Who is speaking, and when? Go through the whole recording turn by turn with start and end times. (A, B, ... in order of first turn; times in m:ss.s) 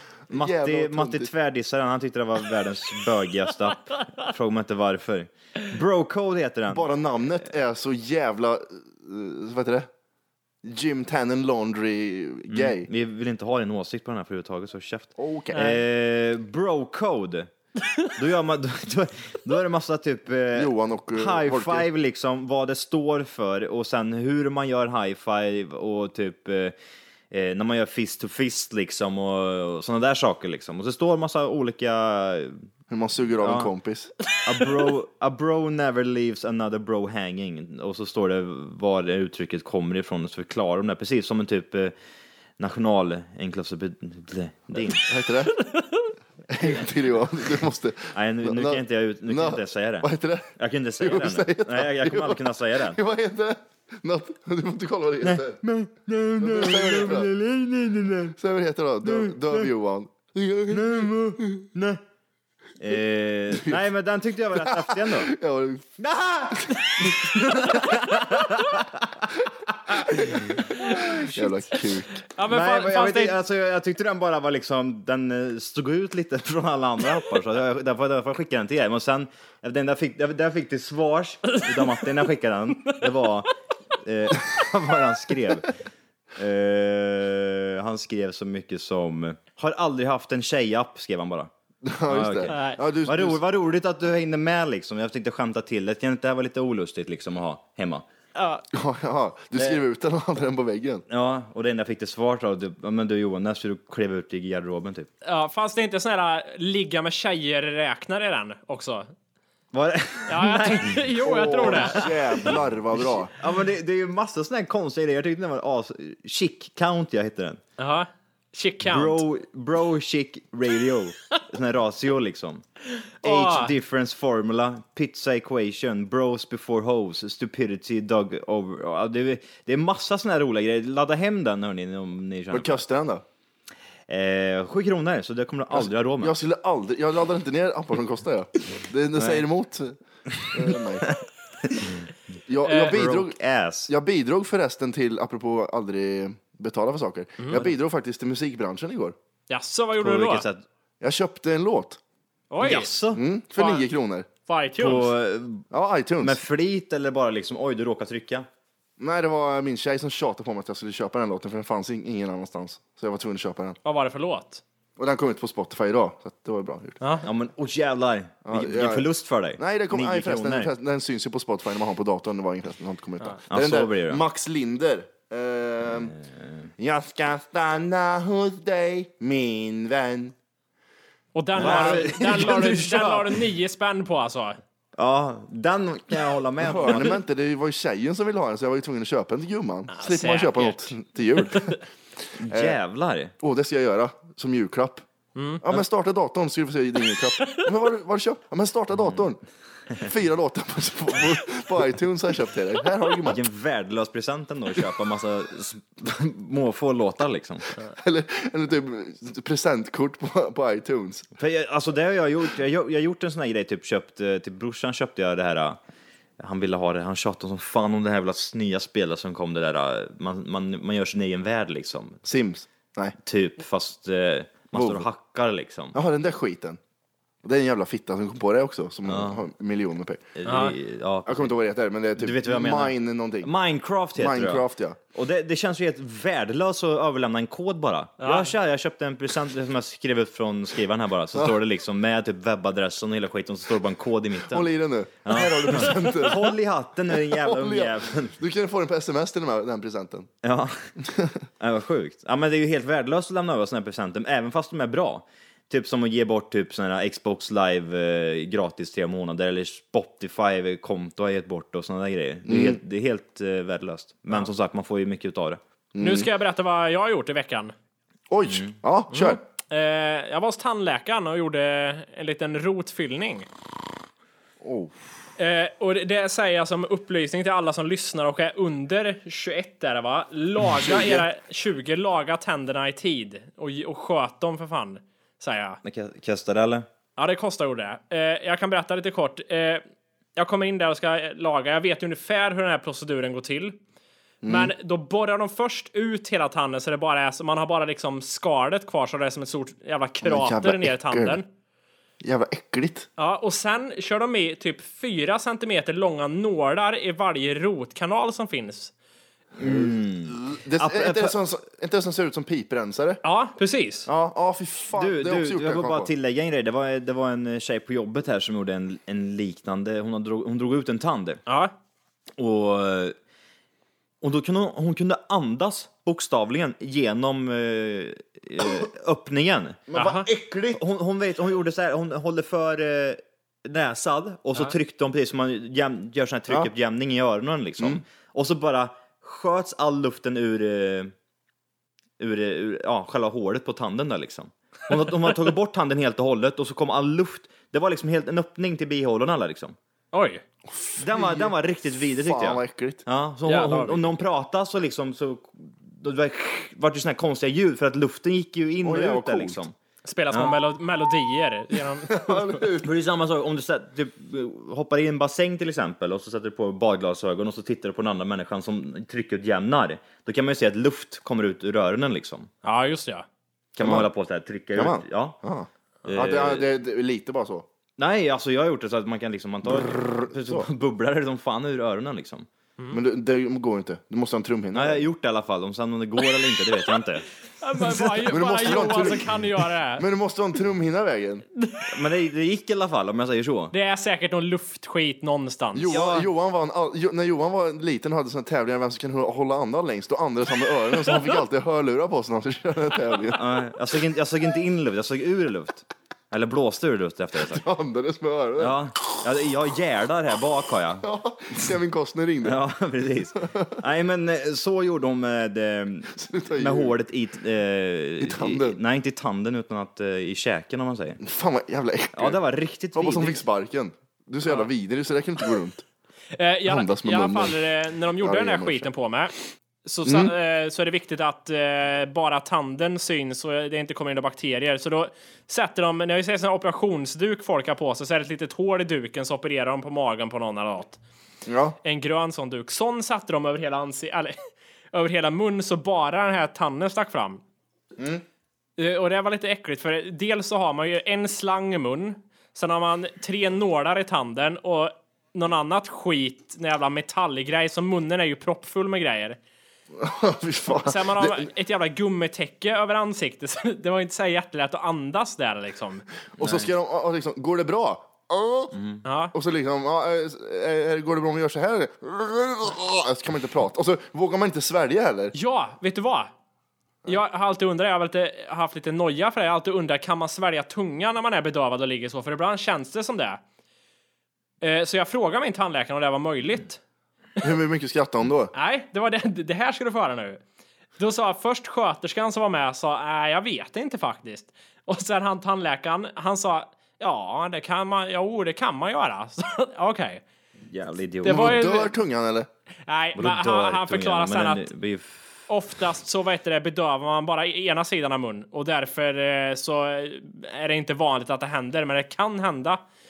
0:00.3-0:01.3 A
0:00.3-0:06.8 B
0:06.7-0:09.9 A
0:10.6-0:12.9 A
0:12.5-0:17.5 B
0:15.2-0:15.8 A
0:18.1-0:26.7 B
0:20.5-0:21.9 A
0:27.3-0:32.7 B
0:32.9-0:34.1 A
0:33.4-0:33.7 B
0:34.4-0:41.9 B
0:42.6-0:45.0 B
0:45.0-0:45.6 A
0:45.6-0:46.0 C
0:46.5-0:55.6 A
0:48.1-0:53.0 B
0:55.2-0:58.4 B
0:56.4-0:57.3 A
0:58.4-1:01.6 A
0:59.0-0:59.7 B
1:00.7-1:02.0 B
1:02.8-1:05.3 B
1:03.5-1:03.8 A
1:04.5-1:06.0 A
1:06.0-1:09.3 B
1:06.6-1:07.3 A
1:09.9-1:11.6 B
1:10.0-1:12.2 A
1:10.8-1:11.1 C
1:12.3-1:13.4 C
1:12.5-1:25.7 B
1:21.5-1:22.0 C
1:26.4-1:31.5 B
1:31.8-1:33.4 A
1:32.1-1:38.0 B
1:32.5-1:32.8 C
1:38.3-1:38.6 C
1:38.7-1:41.0 A
1:41.1-1:45.1 B
1:45.2-1:49.1 C
1:49.7-1:57.6 B
1:50.3-1:52.1 C
1:51.2-1:53.3 A
1:57.8-1:59.2 C
1:58.8-2:02.6 B
2:03.2-2:03.7 C
2:03.2-2:12.8 B
2:12.5-2:13.2 A
2:14.1-2:16.4 B
2:15.7-2:20.0 A
2:19.2-2:19.4 B
2:20.3-2:22.0 B
2:20.5-2:21.1 A
2:22.5-2:23.4 A
2:22.6-2:22.9 C
2:22.9-2:23.9 B
2:23.9-2:29.1 A
2:27.4-2:27.7 C
2:29.5-2:30.4 C
2:30.0-2:30.6 B
2:31.0-2:32.0 A
2:32.5-2:32.9 C
2:32.6-2:33.2 B
2:33.1-2:34.3 A
2:33.6-2:33.8 C
2:34.4-2:35.1 C
2:34.8-2:35.6 B
2:35.7-2:36.4 A
2:36.2-2:38.4 B
2:39.0-2:43.8 A
2:43.8-2:44.6 C
2:45.0-2:47.0 A
2:47.0-2:47.2 C
2:47.2-2:50.7 B
2:48.4-2:56.1 A
2:53.5-2:54.2 B
2:56.8-3:00.3 A
3:01.3-3:04.6 C
3:01.6-3:03.4 B
3:01.6-3:02.4 A
3:05.0-3:07.2 B
3:06.6-3:11.8 A
3:09.9-3:10.9 C
3:11.5-3:11.8 C
3:12.4-3:13.3 B
3:12.5-3:12.8 A
3:13.4-3:15.0 A
3:15.4-3:15.6 C
3:15.6-3:19.4 A
3:19.9-3:23.4 A
3:23.2-3:27.8 B
3:27.8-3:31.3 A
3:31.4-3:35.8 B
3:36.4-3:42.2 B
3:42.2-3:43.2 A
3:43.2-3:46.0 B
3:44.7-3:45.1 A
3:45.9-3:46.8 A
3:47.4-3:50.4 A
3:49.1-3:49.4 B
3:50.4-3:51.5 B
3:50.4-3:50.7 C
3:51.2-3:53.5 A
3:52.2-4:04.7 B
3:54.2-3:55.0 A
3:58.2-3:58.5 C
4:04.4-4:06.5 A
4:05.2-4:08.4 B
4:07.1-4:10.3 A
4:10.4-4:10.9 B
4:11.0-4:11.4 A
4:11.6-4:25.6 B
4:22.5-4:22.8 A
4:25.9-4:26.3 A
4:26.0-4:27.7 C
4:28.3-4:29.4 A
4:29.1-4:33.5 C
4:34.6-4:35.0 A
4:35.4-4:45.8 C
4:40.7-4:41.2 A
4:45.8-4:46.8 B
4:47.2-4:49.8 C
4:50.4-4:53.8 C
4:54.4-4:54.7 A
4:54.4-5:01.4 C
5:00.2-5:01.4 A
5:02.2-5:03.1 A
5:03.2-5:08.9 C
5:09.6-5:11.4 B
5:09.6-5:13.2 A
5:13.2-5:14.1 C
5:14.0-5:16.1 A
5:14.9-5:21.4 B
5:21.5-5:21.7 C
5:22.4-5:23.2 B
5:24.2-5:29.9 B
5:29.9-5:30.8 A
5:30.0-5:30.3 C
5:30.7-5:41.1 B
5:42.2-5:49.8 B
5:50.1-5:50.4 C
5:50.7-5:53.0 A
5:51.0-5:59.7 B
5:53.4-5:54.0 C
5:58.8-5:59.6 A
6:00.0-6:02.7 C
6:02.1-6:02.9 A
6:02.8-6:12.5 B
6:12.6-6:13.2 C
6:13.7-6:15.4 B
6:13.8-6:14.1 A
6:14.7-6:17.7 A
6:16.1-6:16.7 B
6:18.0-6:22.5 B
6:19.6-6:20.7 A
6:22.9-6:25.0 A
6:24.7-6:27.2 B
6:27.6-6:30.0 C
6:27.8-6:29.1 B
6:28.2-6:29.3 A
6:30.0-6:31.4 A
6:31.8-6:33.7 B
6:33.7-6:35.9 C
6:35.7-6:43.4 A
6:35.9-6:36.3 B
6:43.3-6:47.6 B
6:47.5-6:48.8 A
6:48.6-6:51.0 B
6:51.0-6:52.6 A
6:52.4-7:01.2 B
6:53.4-6:53.8 A
6:56.2-6:56.9 A
6:58.2-6:58.8 A
7:01.2-7:02.4 A
7:02.1-7:03.4 B
7:02.9-7:05.8 A
7:06.3-7:21.0 C
7:06.6-7:07.6 A
7:08.2-7:08.9 A
7:10.0-7:10.3 A
7:21.4-7:21.8 A
7:21.8-7:24.4 C
7:24.9-7:27.4 C
7:28.0-7:28.2 A
7:28.8-7:39.4 C
7:39.9-7:41.5 A
7:40.7-7:46.0 C
7:46.4-7:48.7 A
7:46.4-7:46.6 B
7:48.7-7:49.0 B
7:49.0-7:49.3 C
7:49.3-7:55.3 A
7:55.3-7:56.3 C
7:57.0-8:03.4 C
8:04.6-8:06.8 C
8:07.4-8:08.5 A
8:08.5-8:10.4 C
8:11.0-8:20.2 C
8:20.7-8:21.6 B
8:21.2-8:21.9 C
8:21.2-8:22.5 A
8:22.9-8:24.7 C
8:23.2-8:25.5 B
8:25.5-8:32.8 C